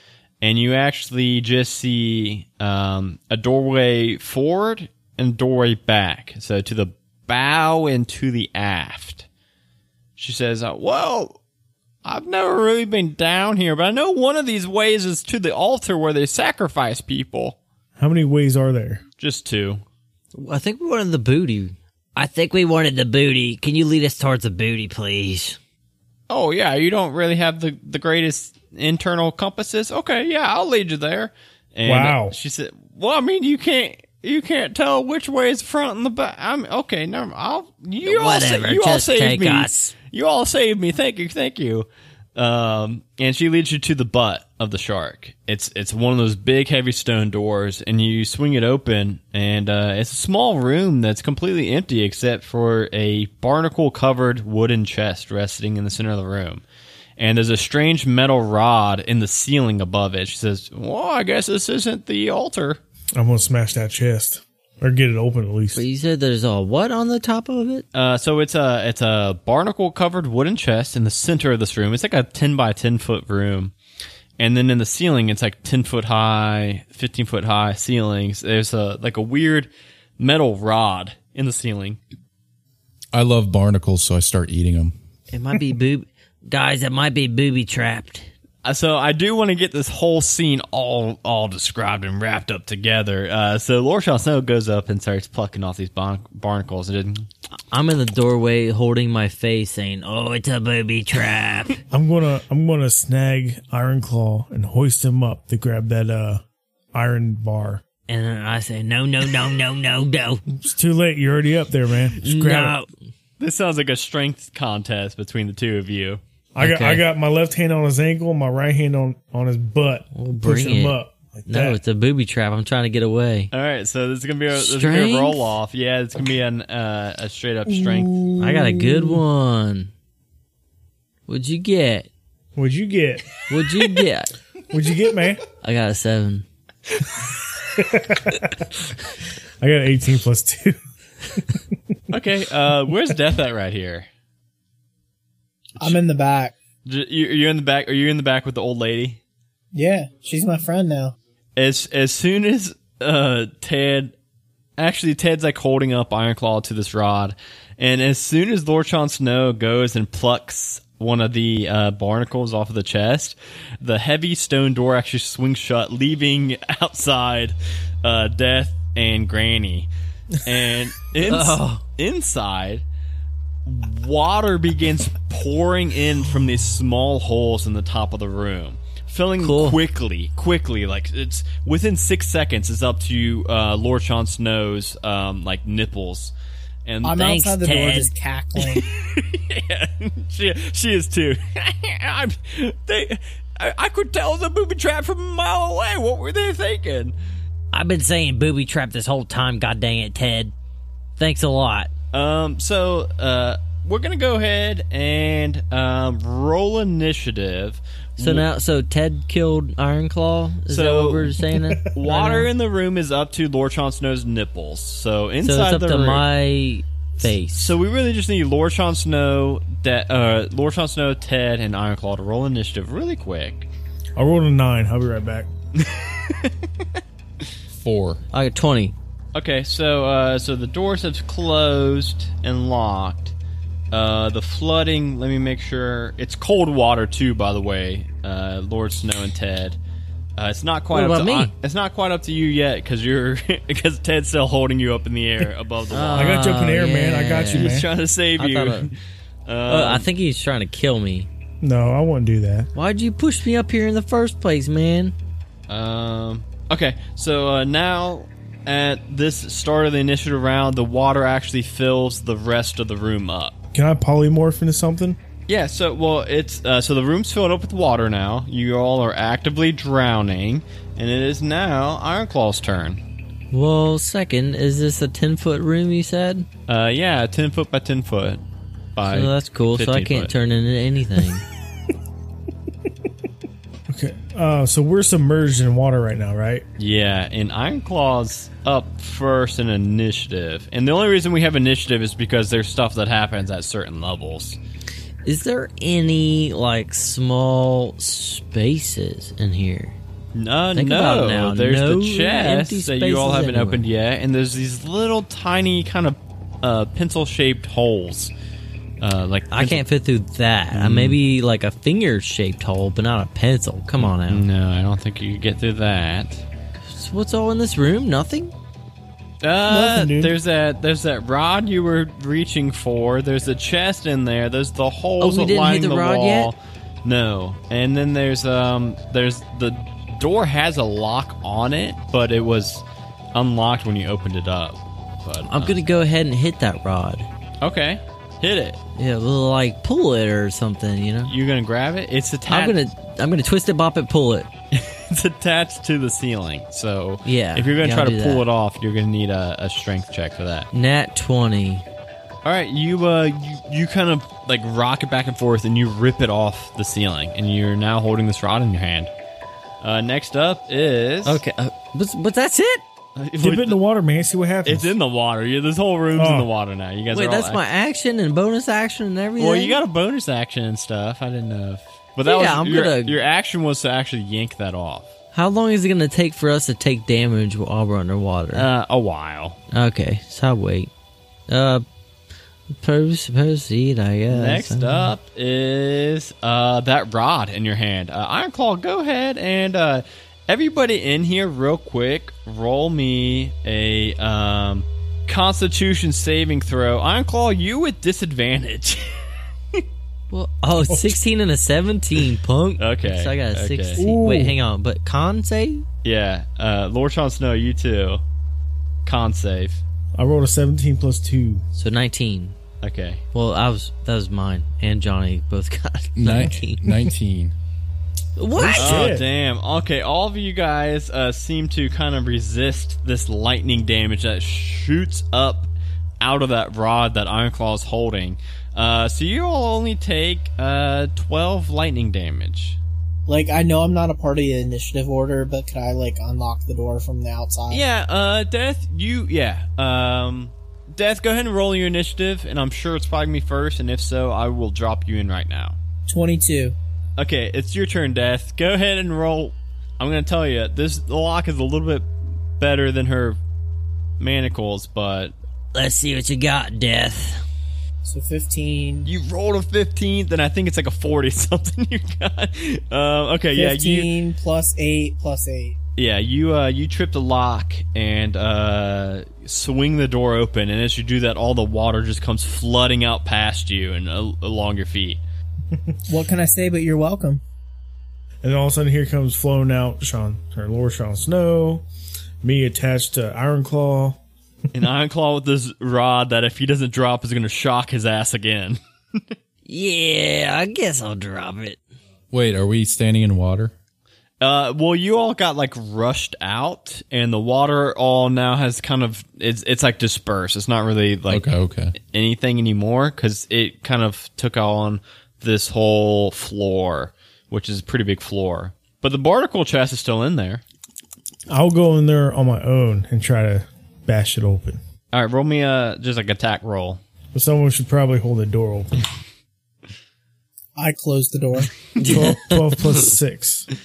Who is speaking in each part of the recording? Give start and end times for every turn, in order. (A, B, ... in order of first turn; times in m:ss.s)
0:00.4-0:09.3 A
0:10.2-0:11.4 A
0:12.0-0:17.6 A
0:18.0-0:19.0 B
0:19.2-0:19.8 A
0:20.3-0:25.6 C
0:26.3-0:56.6 A
0:31.8-0:32.4 B
0:38.0-0:40.0 C
0:57.2-1:02.8 A
1:03.2-1:05.8 B
1:05.8-1:07.8 C
1:07.9-1:13.7 A
1:14.4-1:22.0 A
1:23.1-1:24.9 D
1:25.3-1:28.3 C
1:28.6-1:37.3 A
1:37.7-1:41.8 C
1:41.9-1:47.8 B
1:48.1-1:50.4 C
1:50.5-1:52.8 B
1:52.2-1:52.9 C
1:53.4-1:56.2 A
1:56.5-2:01.8 B
1:56.6-1:57.0 C
2:00.2-2:03.5 C
2:03.5-2:08.2 A
2:04.5-2:05.5 C
2:07.7-2:09.2 B
2:08.4-2:09.9 C
2:11.3-2:12.1 C
2:12.6-2:13.3 B
2:13.5-2:14.3 C
2:14.7-2:15.4 B
2:15.6-2:16.4 C
2:17.7-2:18.7 B
2:19.6-2:20.8 B
2:21.3-2:21.6 B
2:22.1-2:24.1 A
2:25.8-2:26.5 E
2:26.9-2:29.2 A
2:29.7-2:31.2 E
2:31.6-2:34.1 A
2:34.8-2:49.9 A
2:50.4-2:52.8 A
2:51.2-2:51.8 C
2:53.6-3:06.3 A
2:59.4-2:59.8 C
3:06.8-3:07.3 A
3:07.0-3:08.9 E
3:07.2-3:08.1 C
3:08.8-3:17.2 A
3:17.7-3:20.5 C
3:21.2-3:21.9 C
3:22.1-3:28.5 A
3:28.2-3:32.5 C
3:30.7-3:31.4 A
3:31.9-3:36.2 A
3:35.4-3:37.8 C
3:37.5-3:43.7 A
3:44.2-3:45.5 B
3:45.8-3:46.7 A
3:47.8-3:48.2 D
3:48.3-3:49.0 C
3:49.3-3:53.3 A
3:53.9-3:59.8 A
4:00.4-4:06.6 A
4:00.9-4:01.5 C
4:05.9-4:08.9 C
4:06.1-4:07.9 B
4:07.5-4:09.0 A
4:09.5-4:10.1 A
4:09.7-4:11.3 C
4:11.6-4:12.7 B
4:12.8-4:15.1 C
4:15.7-4:23.6 A
4:23.7-4:25.2 B
4:25.5-4:33.0 A
4:33.5-4:36.5 C
4:36.7-4:38.4 A
4:39.0-4:40.3 A
4:39.1-4:41.5 C
4:43.9-4:46.6 B
4:46.8-4:54.6 A
4:55.2-5:00.0 C
5:00.4-5:08.3 A
5:00.8-5:03.8 C
5:09.0-5:09.8 A
5:09.5-5:14.4 C
5:10.7-5:11.2 A
5:14.0-5:16.4 A
5:16.9-5:18.5 C
5:19.4-5:35.8 A
5:19.6-5:20.3 B
5:25.2-5:26.5 C
5:35.5-5:37.3 C
5:37.6-5:38.8 A
5:39.0-5:41.3 C
5:41.2-5:42.8 A
5:42.5-5:44.5 C
5:44.7-5:50.7 A
5:47.2-5:48.4 C
5:50.7-5:51.8 C
5:52.4-5:59.1 A
5:59.8-6:01.4 A
6:01.2-6:02.8 C
6:03.2-6:03.8 A
6:03.4-6:04.9 B
6:04.6-6:07.6 A
6:06.2-6:06.5 B
6:07.1-6:09.8 C
6:09.4-6:15.1 A
6:12.2-6:13.2 C
6:15.3-6:18.7 C
6:18.5-6:19.6 A
6:19.7-6:20.9 C
6:21.5-6:21.8 C
6:22.8-6:25.1 C
6:24.3-6:39.2 A
6:40.3-6:45.8 C
6:40.8-6:41.2 B
6:42.8-6:44.0 A
6:44.0-6:44.6 B
6:46.0-6:48.2 A
6:49.1-6:49.8 A
6:50.2-6:51.6 B
6:51.8-6:52.6 C
6:52.8-6:53.2 A
6:53.3-6:57.1 C
6:56.2-6:57.5 D
6:58.4-6:59.1 C
6:58.6-6:59.3 B
6:58.8-7:12.8 A
7:13.3-7:17.8 E
7:17.7-7:25.8 A
7:26.1-7:26.8 E
7:27.2-7:33.4 A
7:34.2-7:35.3 A
7:35.7-7:37.4 C
7:38.0-7:39.1 E
7:39.0-7:44.1 A
7:43.6-7:45.8 E
7:46.0-7:55.2 A
7:56.1-7:57.4 E
7:58.4-8:01.9 B
8:02.4-8:04.2 B
8:04.7-8:09.2 A
8:09.7-8:11.8 C
8:12.3-8:13.7 D
8:14.4-8:30.6 A
8:21.3-8:22.0 D
8:31.5-8:34.8 B
8:35.1-8:37.0 A
8:37.3-8:39.1 B
8:40.8-8:41.8 E
8:42.0-8:43.1 C
8:42.0-8:43.7 B